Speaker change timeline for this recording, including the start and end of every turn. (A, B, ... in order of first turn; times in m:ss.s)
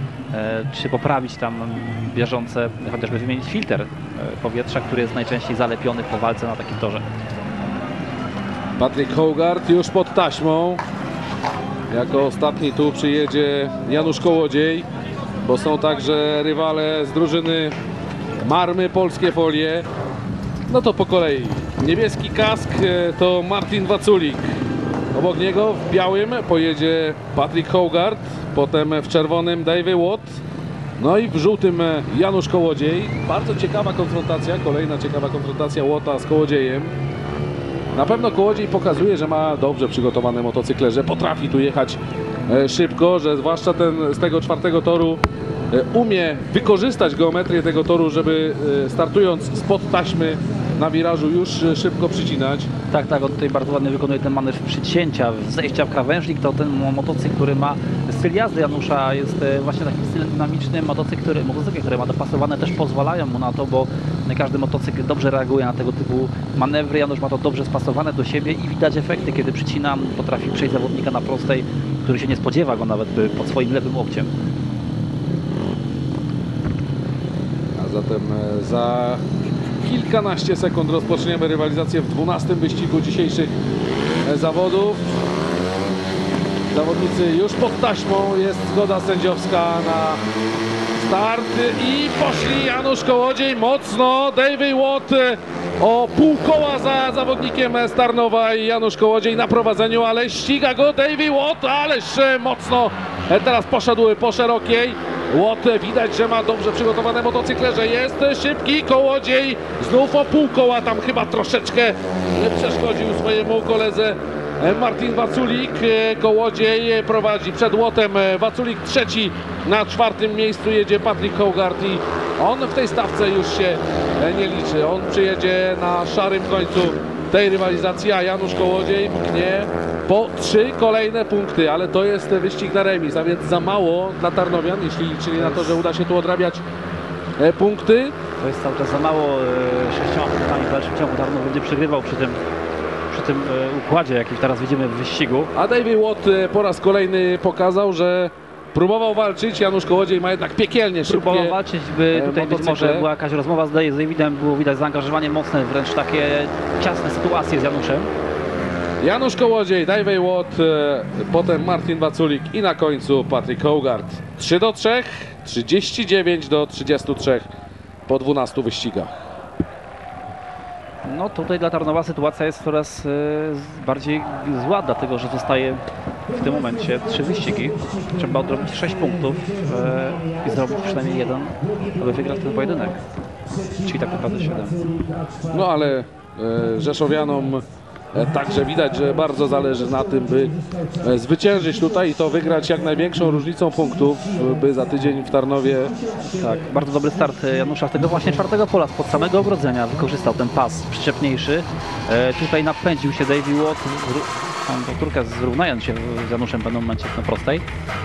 0:00.3-0:07.0 A
0:08.8-0:10.8 B
0:11.9-0:14.9 B
0:15.4-0:17.7 B
0:18.4-0:19.8 B
0:20.7-0:24.5 B
0:25.1-0:30.4 B
0:31.0-0:36.9 B
0:37.9-0:52.7 B
0:52.9-1:14.3 A
1:17.8-1:19.2 B
1:19.8-1:23.5 B
1:24.2-1:25.1 B
1:26.7-1:30.2 B
1:30.9-2:16.6 B
2:17.4-2:18.1 B
2:18.4-2:22.4 A
2:23.1-2:25.5 A
2:25.5-2:31.6 B
2:31.0-2:38.1 A
2:32.1-2:33.1 B
2:39.0-2:47.5 B
2:48.1-2:49.3 B
2:51.0-3:03.0 A
3:03.8-3:04.8 A
3:05.5-3:16.0 B
3:16.3-3:27.6 A